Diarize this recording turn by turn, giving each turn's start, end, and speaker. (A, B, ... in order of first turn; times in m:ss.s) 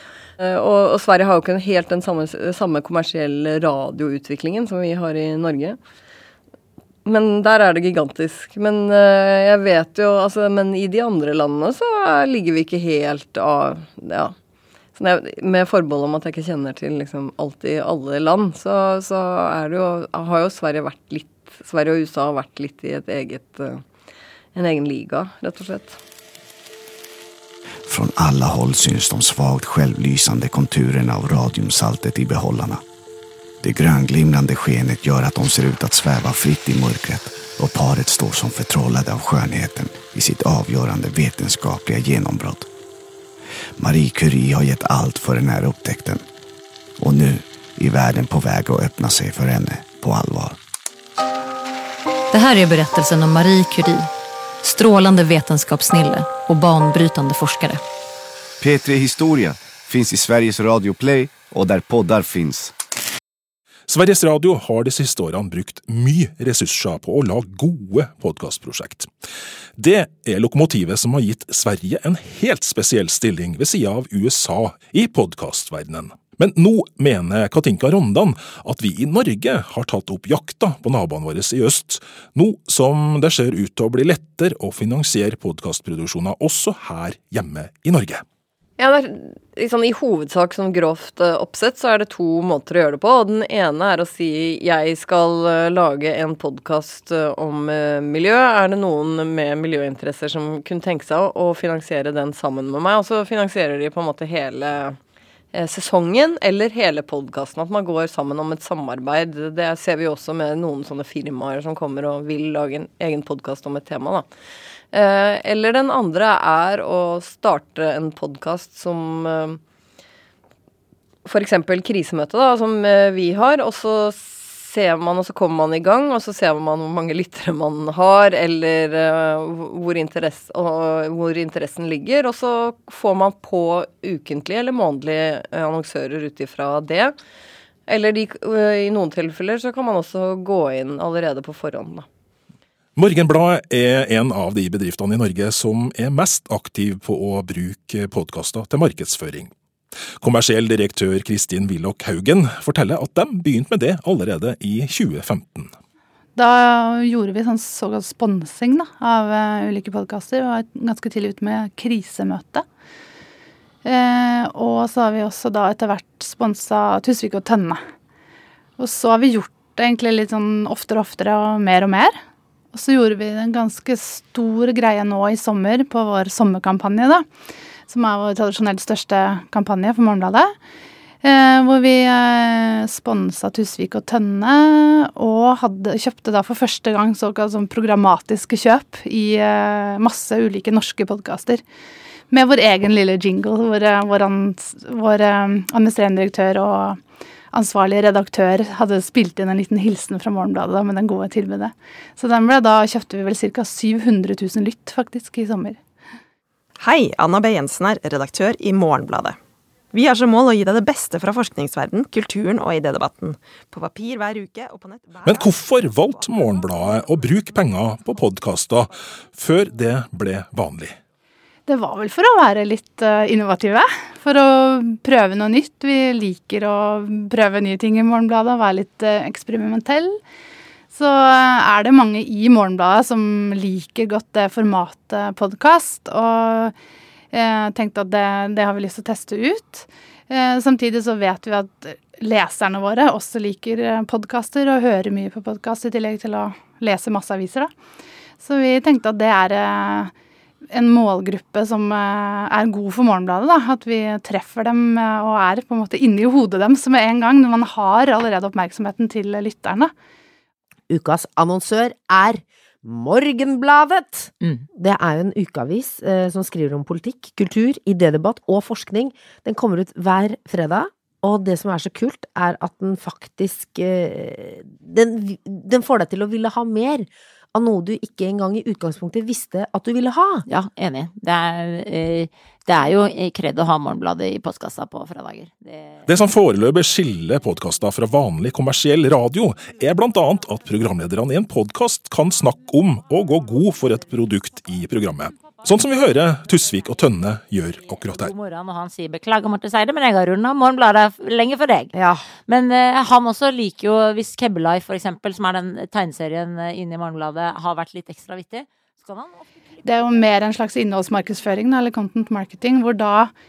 0:00.4-0:05.8 A
0:07.0-0:14.3 A
0:15.0-0:23.8 A
0:24.5-0:26.0 A
0:27.8-0:32.8 B
0:33.6-0:42.7 B
0:43.8-0:46.2 B
0:47.0-0:50.6 B
0:52.3-0:54.1 C
0:54.6-0:57.8 C
0:58.6-1:02.7 D
1:03.9-1:09.1 E
1:09.8-1:28.2 E
1:28.8-1:45.0 A
1:45.5-1:54.2 A
1:54.9-1:59.6 A
2:01.2-2:17.2 A
2:17.9-2:22.1 A
2:23.0-2:29.5 E
2:30.2-2:35.7 E
2:36.3-2:42.6 F
2:43.8-2:47.8 F
2:48.8-2:52.2 F
2:52.7-2:57.2 F
2:57.9-3:00.5 F
3:01.2-3:11.6 F
3:12.3-3:17.0 F
3:17.5-3:25.8 F
3:26.8-3:29.4 G
3:29.9-3:35.5 G
3:35.2-3:41.0 E
3:41.7-3:50.2 F
3:50.9-3:56.7 F
3:57.3-4:07.7 F
4:08.4-4:10.1 F
4:10.7-4:19.9 F
4:20.9-4:40.4 H
4:40.5-4:46.0 I
4:46.0-4:58.3 E
4:58.1-5:09.3 I
5:01.9-5:02.3 H
5:09.8-5:13.3 F